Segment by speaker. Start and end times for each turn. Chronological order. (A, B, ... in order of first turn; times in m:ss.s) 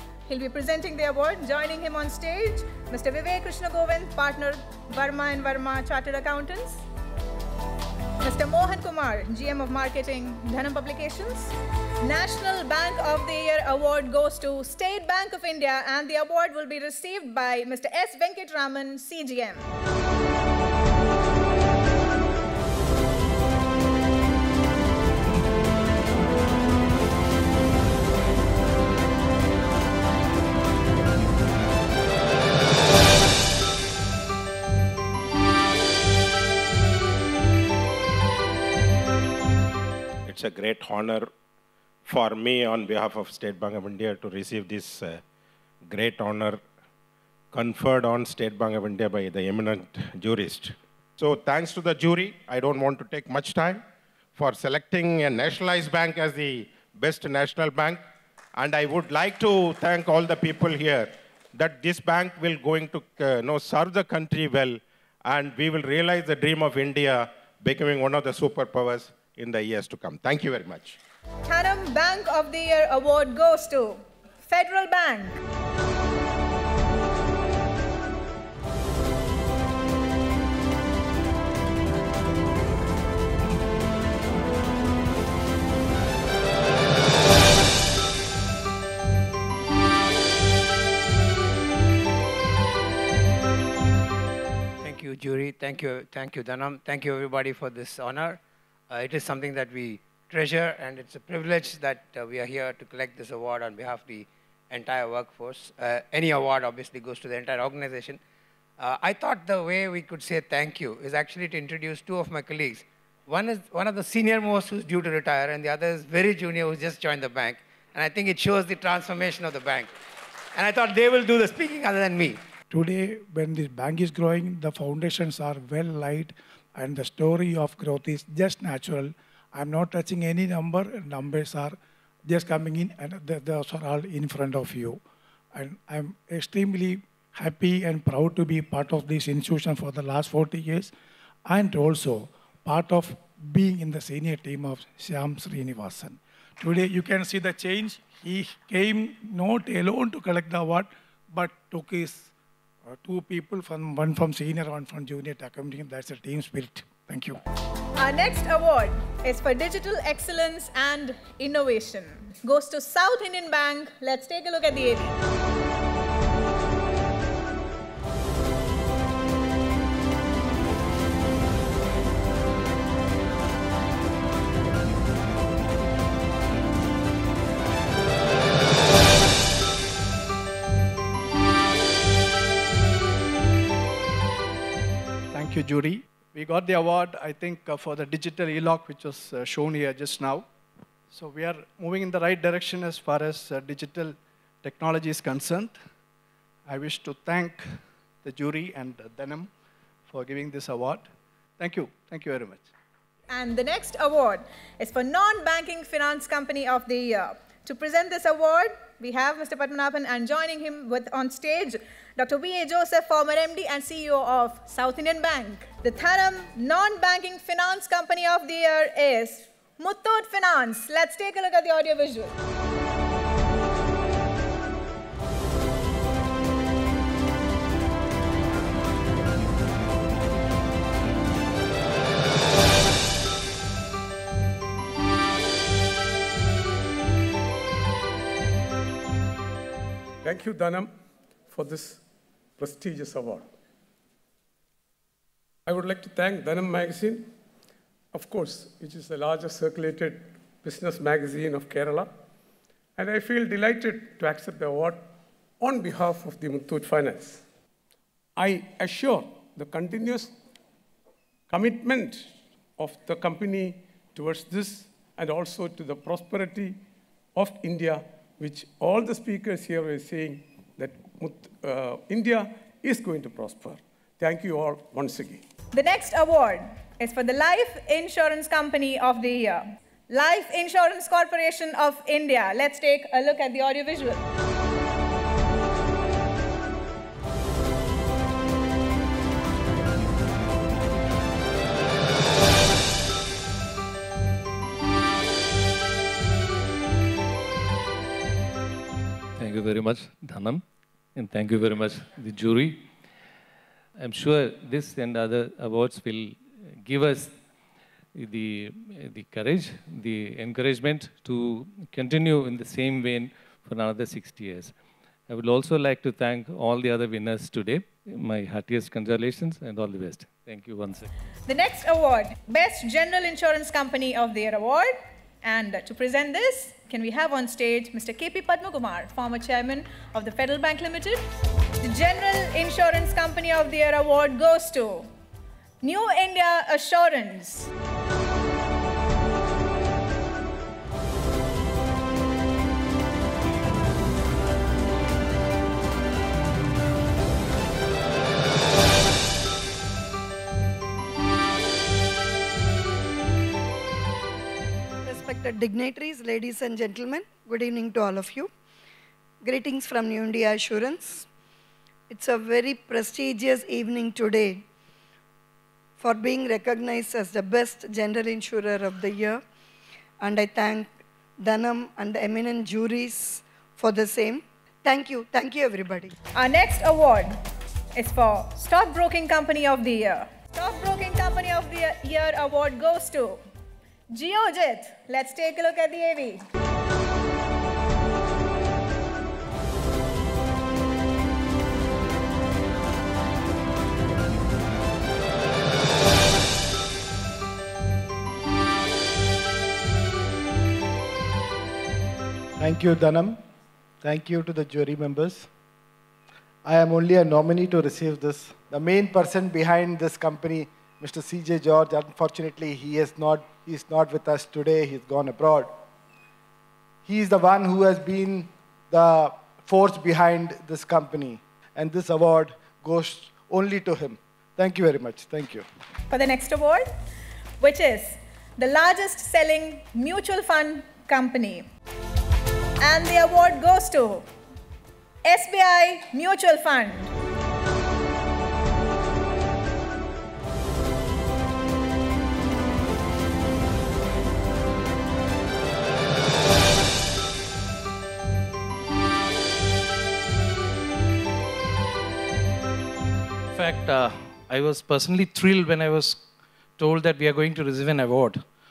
0:00.3-0:06.8 A
0:08.2-0:19.7 A
0:40.2-0:41.3 B
0:42.0-0:45.2 B
0:45.9-0:46.6 B
0:47.5-0:53.8 B
0:54.4-0:58.0 B
0:58.6-1:11.0 B
1:11.5-1:15.4 A
1:34.8-1:48.2 C
1:48.8-1:59.9 C
2:00.5-2:02.4 C
2:02.7-2:15.0 D
2:15.5-2:20.9 D
2:21.5-2:32.3 D
2:32.9-2:37.4 D
2:38.0-2:45.2 A
3:05.3-3:10.5 E
3:11.1-3:15.8 E
3:16.7-3:17.7 E
3:18.2-3:19.5 E
3:20.1-3:21.1 E
3:21.6-3:22.7 E
3:23.3-3:42.4 A
4:00.2-4:00.9 F
4:01.5-4:02.0 F
4:02.6-4:03.5 F
4:05.6-4:07.3 F
4:08.1-4:12.1 F
4:13.0-4:15.1 F
4:15.6-4:17.4 F
4:18.4-4:20.4 F
4:21.5-4:26.8 F
4:27.4-4:35.4 F
4:35.7-4:44.2 A
4:59.4-5:00.6 G
5:01.1-5:02.9 G
5:04.0-5:07.4 G
5:08.1-5:14.8 G
5:15.3-5:21.1 G
5:21.5-5:31.2 A
5:31.8-5:35.1 A
5:35.8-5:37.7 A
5:55.0-5:58.5 H
5:59.4-6:01.3 H
6:02.1-6:04.6 H
6:06.0-6:09.4 H
6:10.2-6:16.1 H
6:16.4-6:17.4 A
6:18.0-6:23.4 A
6:24.1-6:26.4 A
6:42.6-6:43.4 I
6:44.0-6:45.5 I
6:46.6-6:55.7 I
6:57.0-7:05.6 I
7:06.1-7:06.9 A
7:07.6-7:11.6 A
7:12.8-7:14.2 A
7:15.2-7:17.1 A
7:33.5-7:38.4 J